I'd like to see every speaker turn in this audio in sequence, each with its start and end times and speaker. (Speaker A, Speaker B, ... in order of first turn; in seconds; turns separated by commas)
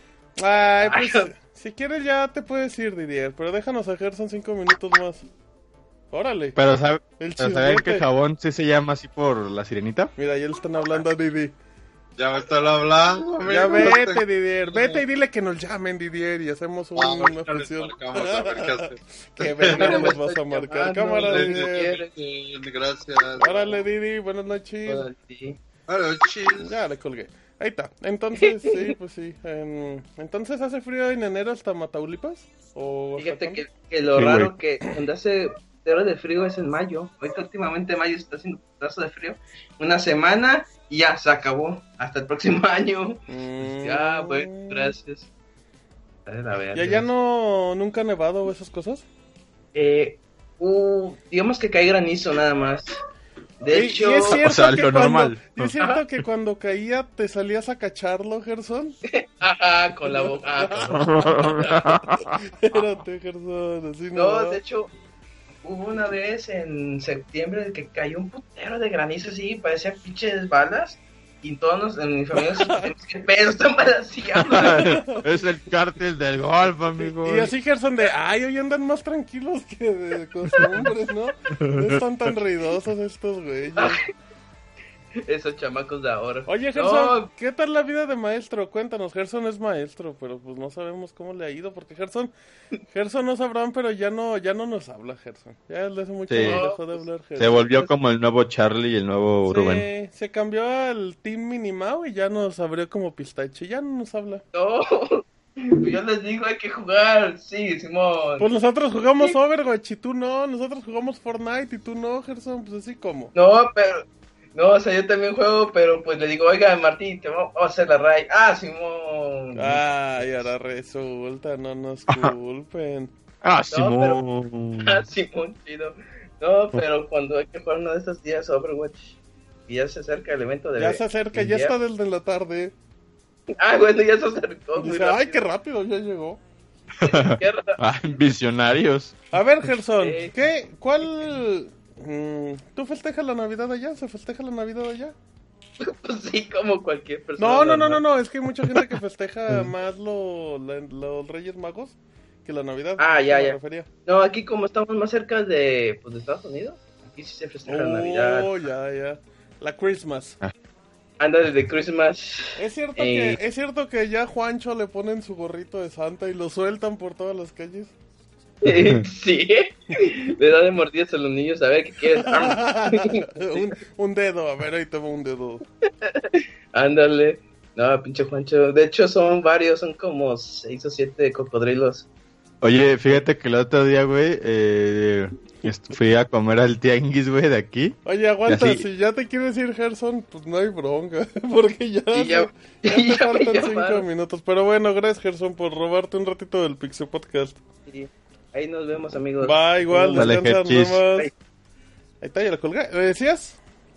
Speaker A: 0.4-5.3, Speaker B: 0.8-1.3, Speaker A: 6.1-6.6, Speaker C: 6.5-10.1, Speaker A: 7.2-8.1, Speaker A: 10.2-11.5, Speaker D: 12.2-15.0, Speaker A: 13.4-22.0, Speaker D: 16.9-20.1, Speaker B: 19.6-22.1, Speaker D: 21.2-23.8, Speaker A: 23.4-25.1, Speaker B: 24.9-25.6, Speaker D: 25.9-26.7, Speaker A: 26.6-33.6, Speaker B: 28.4-28.9, Speaker B: 33.2-45.3, Speaker C: 34.1-34.5, Speaker A: 43.3-44.9, Speaker B: 46.2-47.0, Speaker A: 46.7-49.0, Speaker B: 49.7-53.0, Speaker B: 53.6-54.4, Speaker A: 53.7-59.0, Speaker C: 54.3-55.7, Speaker B: 59.1-61.8, Speaker A: 60.0-64.6, Speaker C: 61.0-62.4, Speaker B: 64.1-64.9, Speaker B: 65.6-75.2, Speaker A: 72.4-72.9, Speaker C: 74.4-77.5, Speaker A: 74.6-75.2, Speaker A: 77.0-84.0, Speaker C: 81.6-82.0, Speaker B: 83.8-84.0, Speaker B: 85.2-87.3, Speaker A: 86.5-92.3, Speaker A: 92.9-97.8, Speaker C: 96.3-96.7, Speaker B: 96.4-97.0, Speaker C: 97.4-99.8, Speaker A: 99.5-104.4, Speaker B: 104.5-108.5, Speaker A: 108.4-113.3, Speaker B: 113.3-119.8, Speaker A: 119.5-123.1, Speaker C: 123.4-125.0, Speaker B: 123.7-124.2, Speaker B: 124.8-131.7, Speaker A: 130.8-132.7, Speaker B: 133.5-135.4, Speaker A: 134.8-136.4, Speaker C: 137.0-139.2, Speaker B: 137.0-137.8, Speaker A: 139.3-145.1, Speaker B: 140.0-140.3, Speaker B: 145.8-148.0, Speaker A: 147.4-153.9, Speaker B: 153.0-158.6, Speaker A: 157.7-160.4, Speaker B: 161.2-163.4, Speaker A: 162.6-167.9, Speaker B: 168.6-173.7, Speaker C: 168.7-169.0, Speaker A: 172.2-175.6, Speaker B: 176.0-182.1, Speaker C: 182.6-188.8, Speaker A: 188.0-197.6, Speaker B: 192.1-194.0, Speaker B: 197.9-200.3, Speaker A: 199.4-201.3, Speaker C: 200.2-201.2, Speaker A: 202.2-203.6